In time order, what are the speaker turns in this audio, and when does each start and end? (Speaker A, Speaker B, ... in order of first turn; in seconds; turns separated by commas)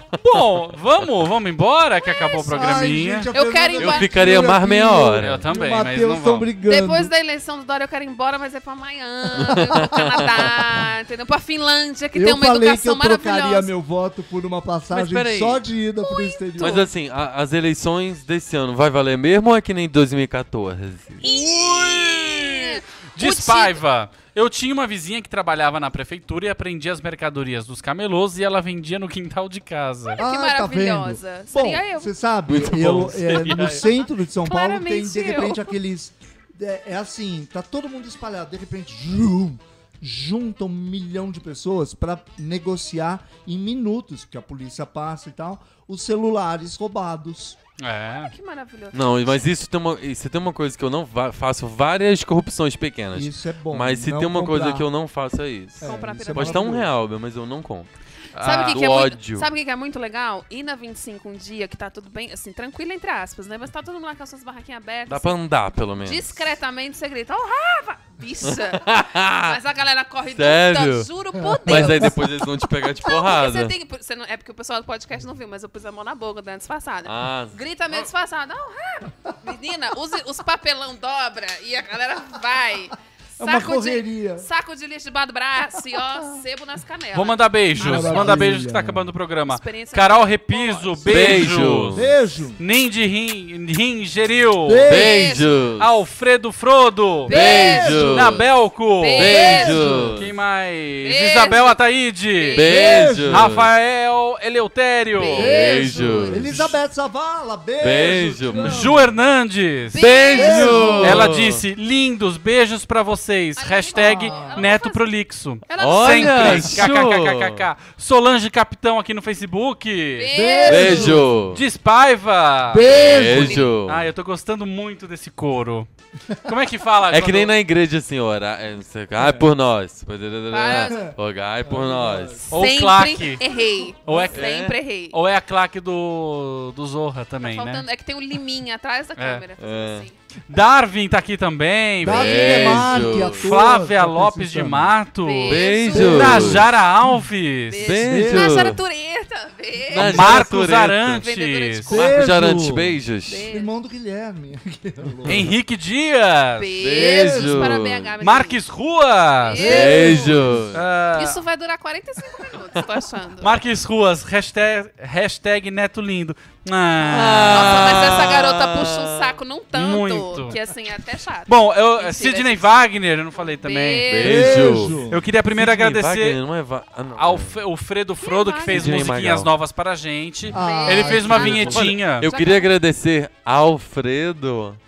Speaker A: 0.2-3.3, Speaker B: 2.0-4.4, Speaker C: 2.5-7.1, Speaker D: 3.8-5.5, Speaker A: 5.2-6.5, Speaker B: 6.6-13.7, Speaker D: 9.3-10.7, Speaker C: 9.4-10.5, Speaker C: 12.1-16.9, Speaker D: 14.9-15.6, Speaker B: 16.0-16.9, Speaker D: 16.6-21.2, Speaker B: 21.2-23.8, Speaker A: 21.2-22.6, Speaker A: 23.1-30.2, Speaker B: 30.1-32.1, Speaker C: 30.2-47.6, Speaker D: 32.5-33.7, Speaker A: 32.5-33.9, Speaker B: 34.5-35.7, Speaker A: 47.8-48.3, Speaker B: 48.3-49.4, Speaker D: 48.9-57.9, Speaker C: 53.1-54.9, Speaker C: 55.8-56.9, Speaker B: 55.8-56.8, Speaker A: 58.3-58.8, Speaker B: 58.4-65.3, Speaker D: 58.7-59.5, Speaker D: 65.1-66.6, Speaker B: 66.0-88.4, Speaker D: 68.4-69.6, Speaker D: 70.2-71.1, Speaker C: 71.4-72.2, Speaker D: 71.6-73.7, Speaker D: 77.0-78.0, Speaker C: 83.4-84.5, Speaker C: 85.9-86.4, Speaker A: 87.1-94.9, Speaker C: 87.8-89.1, Speaker B: 89.5-91.5, Speaker D: 91.0-92.1, Speaker C: 91.9-92.6, Speaker C: 94.7-95.3, Speaker D: 94.9-95.9, Speaker B: 94.9-95.5, Speaker A: 95.8-97.3, Speaker B: 97.2-98.2, Speaker D: 97.3-98.5, Speaker C: 97.3-98.4, Speaker A: 98.0-102.6, Speaker B: 99.0-99.8, Speaker D: 99.2-100.3, Speaker C: 99.3-100.2, Speaker B: 101.0-102.9, Speaker D: 102.5-103.7, Speaker C: 102.6-103.5, Speaker A: 103.2-106.8, Speaker B: 105.1-105.9, Speaker D: 105.3-106.6, Speaker C: 105.4-109.1, Speaker D: 107.8-108.9, Speaker A: 108.6-120.8, Speaker B: 109.9-111.0, Speaker D: 109.9-111.6, Speaker C: 110.3-111.3, Speaker B: 113.5-115.1, Speaker C: 114.0-114.7, Speaker B: 115.7-116.9, Speaker D: 115.8-117.7, Speaker B: 120.2-121.2, Speaker C: 120.3-121.3, Speaker D: 120.6-121.6, Speaker A: 121.5-122.9, Speaker C: 122.7-123.7, Speaker B: 122.8-123.7, Speaker D: 122.8-124.1, Speaker A: 123.8-125.9, Speaker C: 126.3-126.5, Speaker A: 126.4-127.5, Speaker D: 127.1-132.5, Speaker C: 129.2-129.5, Speaker B: 130.5-131.1, Speaker C: 130.7-132.6, Speaker A: 132.5-133.4, Speaker B: 132.5-135.2, Speaker A: 134.0-134.5, Speaker D: 134.3-134.8, Speaker A: 135.1-137.8, Speaker B: 137.4-140.2, Speaker A: 139.2-139.4, Speaker D: 139.6-140.1, Speaker A: 140.5-147.8, Speaker C: 142.0-144.9, Speaker D: 142.0-143.4, Speaker B: 145.2-146.6, Speaker D: 145.5-146.7, Speaker C: 145.9-146.6, Speaker B: 147.7-150.4, Speaker D: 147.8-148.8, Speaker C: 148.0-148.8, Speaker D: 149.9-151.2, Speaker A: 150.0-152.1, Speaker B: 151.2-152.2, Speaker C: 151.9-155.5, Speaker D: 152.0-153.5, Speaker B: 153.3-153.7, Speaker A: 155.2-156.7, Speaker B: 156.6-158.6, Speaker D: 156.8-158.2, Speaker C: 156.9-157.8, Speaker A: 158.2-161.4, Speaker B: 159.4-160.5, Speaker D: 159.5-160.8, Speaker C: 159.7-160.0, Speaker B: 161.1-163.6, Speaker A: 163.4-168.3, Speaker D: 167.0-169.4, Speaker B: 167.5-172.9, Speaker A: 169.7-170.6, Speaker A: 171.5-176.4, Speaker B: 173.6-174.8, Speaker D: 174.1-177.6, Speaker C: 174.2-175.2, Speaker A: 177.2-182.3, Speaker B: 178.2-179.2, Speaker D: 178.6-179.5, Speaker C: 180.5-181.9, Speaker B: 180.5-182.7, Speaker D: 181.7-184.8